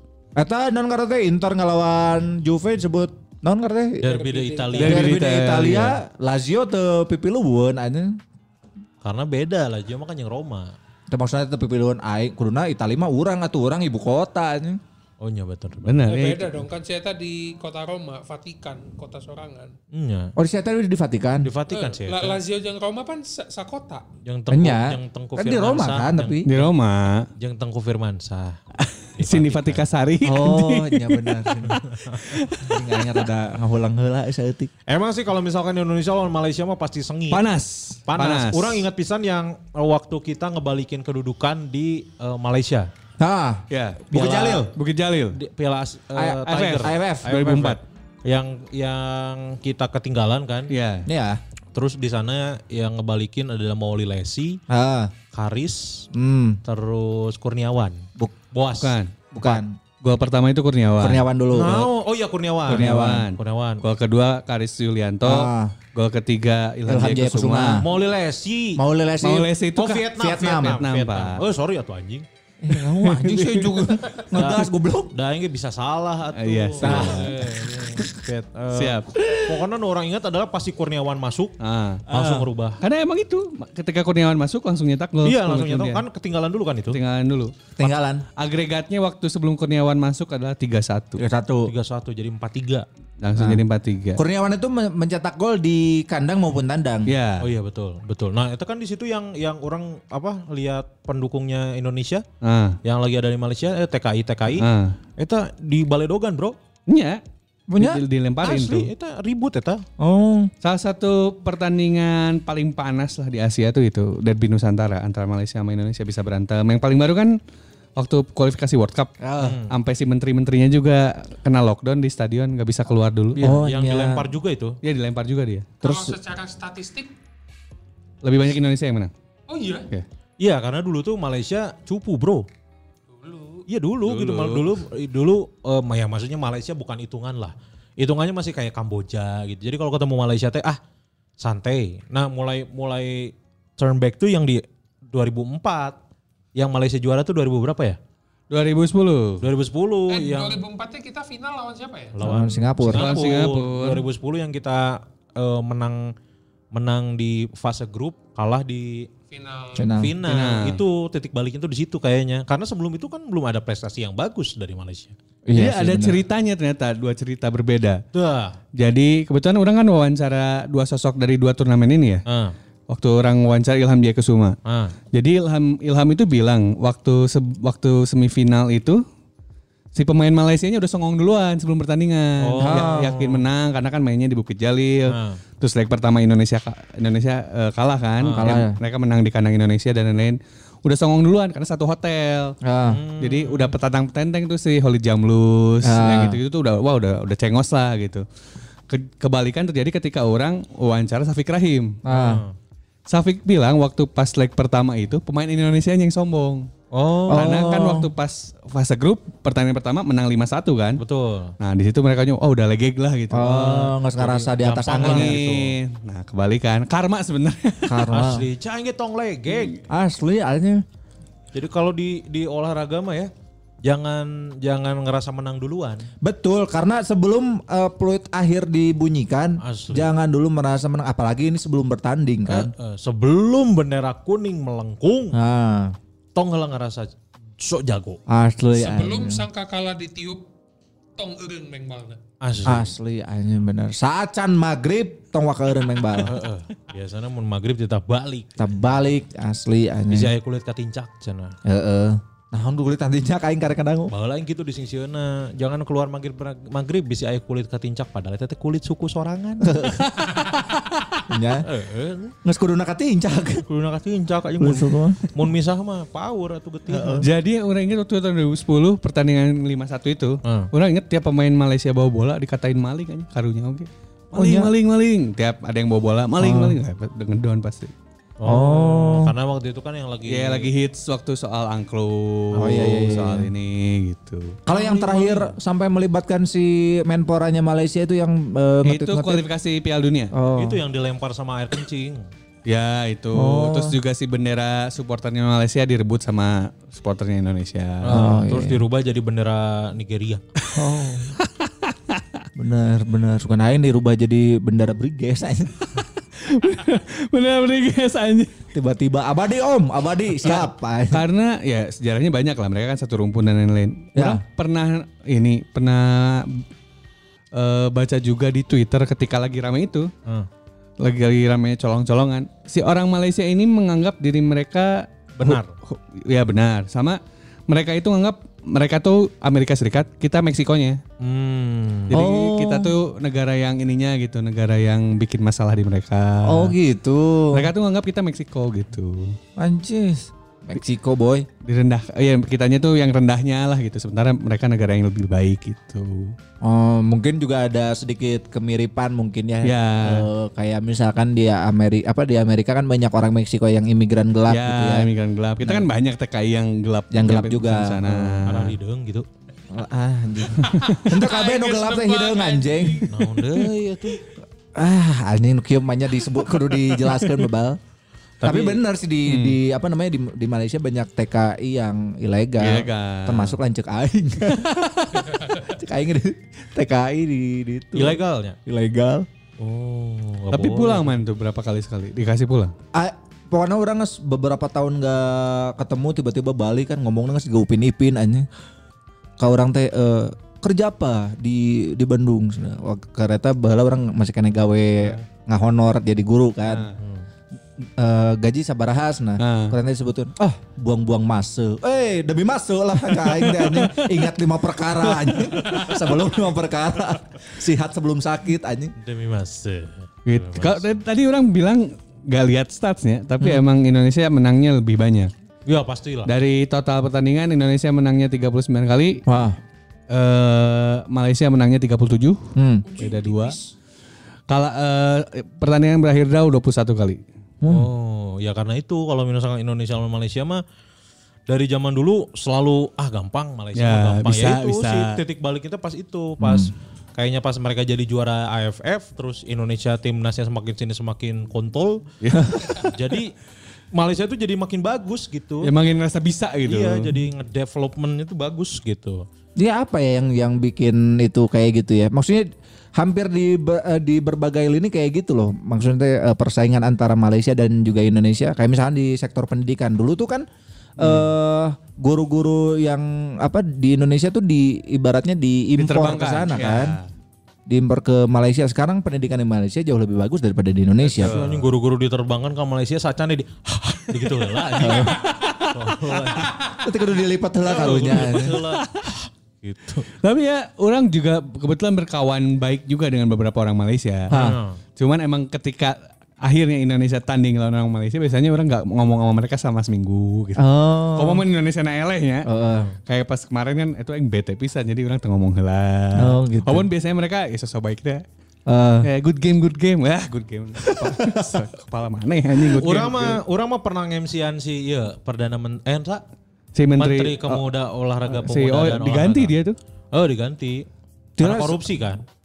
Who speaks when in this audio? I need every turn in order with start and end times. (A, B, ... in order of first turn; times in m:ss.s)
0:00.4-0:04.1 A
0:04.0-0:05.1 B
0:04.0-0:05.0 C
0:04.8-0:06.0 D
0:04.8-0:08.2 A
0:09.0-0:10.8 B
0:11.1-0:14.8 A
0:15.2-0:16.0 B
0:15.8-0:16.6 D
0:16.1-0:19.7 C
0:19.9-0:20.3 B
0:20.4-0:21.5 A
0:21.4-0:22.4 B
0:21.7-0:24.0 C
0:24.2-0:26.7 B
0:24.5-0:26.5 A
0:26.5-0:27.3 D
0:27.4-0:28.6 B
0:28.8-0:32.8 D
0:29.2-0:29.8 B
0:30.2-0:31.8 A
0:31.8-0:32.2 B
0:32.5-0:34.7 A
0:34.9-0:37.4 B
0:37.3-0:38.8 D
0:38.1-0:42.9 B
0:43.2-0:44.7 A
0:43.7-0:44.1 D
0:44.1-0:44.7 B
0:44.7-0:45.4 D
0:45.3-0:50.7 B
0:46.2-0:47.4 A
0:46.5-0:47.8 D
0:50.7-0:51.1 D
0:51.1-0:51.4 A
0:51.7-0:54.6 B
0:54.7-0:55.1 A
0:55.3-0:56.1 B
0:56.1-0:56.6 A
0:56.6-0:59.0 B
0:58.8-1:01.2 D
0:59.3-0:59.8 A
1:01.0-1:01.9 A
1:01.5-1:03.8 B
1:02.7-1:03.3 A
1:02.7-1:07.8 D
1:05.2-1:05.8 A
1:06.9-1:07.8 A
1:07.8-1:08.8 B
1:08.8-1:09.5 A
1:09.2-1:11.4 D
1:09.8-1:12.3 B
1:10.1-1:10.8 A
1:12.6-1:15.1 A
1:12.7-1:14.0 D
1:14.4-1:21.6 B
1:16.4-1:17.3 D
1:16.8-1:17.4 A
1:18.7-1:19.6 D
1:21.6-1:22.2 D
1:22.1-1:22.8 B
1:22.8-1:26.0 D
1:25.2-1:27.0 B
1:26.9-1:27.7 D
1:27.8-1:28.2 A
1:28.4-1:31.2 D
1:31.2-1:31.7 A
1:31.7-1:32.9 B
1:33.2-1:34.2 D
1:33.4-1:33.6 A
1:34.2-1:37.1 A
1:37.1-1:37.5 D
1:37.4-1:42.2 B
1:42.4-1:42.8 D
1:42.8-1:44.7 B
1:44.6-1:45.0 D
1:45.2-1:46.6 B
1:46.9-1:47.2 D
1:47.7-1:48.0 A
1:47.8-1:48.9 D
1:48.4-1:49.8 B
1:50.0-1:50.5 A
1:50.6-1:57.4 D
1:58.0-2:03.5 D
1:59.2-1:59.6 A
1:59.4-1:59.7 B
2:03.4-2:04.3 A
2:03.4-2:04.8 B
2:04.8-2:05.7 D
2:05.8-2:06.2 A
2:05.8-2:07.1 C
2:08.2-2:09.1 D
2:09.5-2:09.9 C
2:10.4-2:12.5 B
2:13.1-2:13.6 C
2:13.7-2:20.8 B
2:14.1-2:14.7 D
2:21.4-2:26.0 B
2:26.6-2:28.0 B
2:28.5-2:29.4 D
2:29.4-2:30.6 B
2:30.1-2:32.2 C
2:32.2-2:36.1 B
2:32.2-2:33.2 A
2:32.9-2:34.0 D
2:36.7-2:39.1 B
2:39.3-2:39.9 C
2:39.8-2:40.1 A
2:39.9-2:45.2 B
2:40.3-2:40.8 D
2:45.5-2:46.2 A
2:45.6-2:48.0 D
2:48.1-2:48.6 B
2:48.8-2:52.2 D
2:52.3-2:52.5 B
2:52.9-2:54.6 D
2:54.7-2:55.0 B
2:55.1-2:59.0 D
3:00.0-3:12.6 D
3:02.4-3:03.4 B
3:02.6-3:03.2 A
3:05.1-3:05.4 B
3:08.2-3:08.6 B
3:08.3-3:08.8 A
3:12.6-3:13.0 A
3:12.9-3:13.8 B
3:13.2-3:18.2 D
3:15.8-3:16.4 A
3:18.9-3:22.0 D
3:22.0-3:22.4 A
3:22.1-3:22.5 B
3:23.1-3:26.7 D
3:26.9-3:27.5 B
3:27.3-3:28.1 A
3:27.3-3:31.0 D
3:31.0-3:31.6 B
3:31.6-3:34.0 D
3:33.3-3:35.4 A
3:34.2-3:35.7 B
3:34.9-3:38.1 D
3:37.9-3:38.5 A
3:38.1-3:39.8 B
3:39.9-3:40.8 A
3:41.5-3:43.3 B
3:43.8-3:46.1 B
3:46.2-3:52.7 A
3:49.6-3:50.1 B
3:52.5-3:55.4 B
3:55.3-3:56.0 A
3:56.4-3:58.2 B
3:58.3-3:59.5 A
3:58.7-4:00.4 C
4:01.2-4:02.2 C
4:02.4-4:02.9 B
4:02.6-4:06.3 A
4:06.2-4:08.7 B
4:08.6-4:10.3 A
4:10.1-4:11.6 B
4:11.6-4:14.1 A
4:14.1-4:19.8 B
4:19.6-4:20.3 A
4:21.3-4:21.7 A
4:21.6-4:22.4 B
4:22.4-4:23.6 A
4:23.7-4:27.3 B
4:24.6-4:25.3 A
4:26.9-4:27.3 A
4:27.2-4:37.9 D
4:30.4-4:30.7 B
4:34.4-4:34.7 A
4:36.4-4:36.8 A
4:38.4-4:40.7 B
4:38.4-4:39.3 A
4:40.3-4:44.6 D
4:42.5-4:42.8 B
4:42.6-4:43.5 A
4:44.7-4:49.4 A
4:44.7-4:45.1 C
4:44.8-4:45.4 B
4:48.8-4:50.3 D
4:50.3-4:50.8 A
4:50.6-4:52.3 B
4:52.7-4:58.4 D
4:53.3-4:54.0 A
4:58.0-5:00.4 B
4:58.1-4:58.8 A
5:00.7-5:01.4 A
5:01.5-5:02.4 D
5:02.6-5:05.9 A
5:06.4-5:08.5 D
5:08.7-5:11.2 A
5:10.5-5:16.6 D
5:14.2-5:14.4 A
5:17.5-5:20.1 D
5:21.0-5:31.0 D
5:25.4-5:25.8 B
5:31.2-5:32.2 B
5:32.1-5:36.8 D
5:32.1-5:32.9 A
5:36.4-5:37.7 A
5:37.5-5:39.4 D
5:39.6-5:41.5 A
5:41.6-5:46.4 D
5:46.6-5:55.1 A
5:49.6-5:50.3 D
5:54.5-5:58.7 D
5:57.1-5:58.6 A
5:58.5-5:59.3 B
5:59.7-6:03.1 A
6:00.6-6:01.1 D
6:00.8-6:03.0 C
6:03.1-6:04.2 B
6:04.7-6:07.8 A
6:06.9-6:07.3 D
6:08.4-6:08.8 B
6:08.4-6:19.3 A
6:09.3-6:09.6 D
6:12.6-6:13.6 D
6:18.0-6:18.6 B
6:19.6-6:21.1 B
6:20.5-6:22.7 D
6:22.9-6:28.5 A
6:29.4-6:36.9 A
6:36.7-6:36.9 D
6:37.0-6:37.3 B
6:38.0-6:48.9 A
6:39.4-6:39.8 D
6:43.1-6:44.2 D
6:45.0-6:45.5 D
6:49.0-6:50.9 B
6:50.3-6:55.3 D
6:55.7-6:56.3 B
6:56.3-6:59.2 D
6:59.3-6:59.6 A
7:00.1-7:02.4 D
7:02.6-7:02.8 A
7:02.8-7:03.7 C
7:03.0-7:03.6 D
7:04.5-7:07.2 D
7:07.6-7:07.9 A
7:07.7-7:10.6 B
7:11.5-7:22.0 B
7:13.8-7:15.2 D
7:16.4-7:16.7 A
7:22.2-7:22.8 D
7:22.3-7:22.7 A
7:22.8-7:23.4 B
7:23.9-7:25.7 B
7:25.6-7:27.1 D
7:26.7-7:29.2 B
7:29.6-7:40.5 A
7:41.0-7:47.0 A
7:41.0-7:41.3 D
7:45.8-7:47.1 D
7:47.7-7:51.4 A
7:51.1-7:56.5 B
7:51.2-7:51.7 D
7:54.3-7:55.7 D
7:54.8-7:55.2 A
7:56.8-7:58.6 A
7:57.6-7:58.8 B
7:59.6-8:00.1 B
8:00.2-8:04.4 D
8:04.3-8:04.6 A
8:04.3-8:04.8 B
8:05.0-8:12.5 D
8:10.6-8:11.4 A
8:12.5-8:12.9 A
8:13.1-8:18.2 D
8:16.2-8:16.9 A
8:18.7-8:19.1 A
8:19.0-8:23.4 D
8:20.9-8:21.6 A
8:22.8-8:26.2 B
8:26.8-8:27.7 D
8:27.0-8:29.5 B
8:28.3-8:29.8 D
8:30.1-8:30.9 B
8:31.4-8:31.9 A
8:31.4-8:32.2 B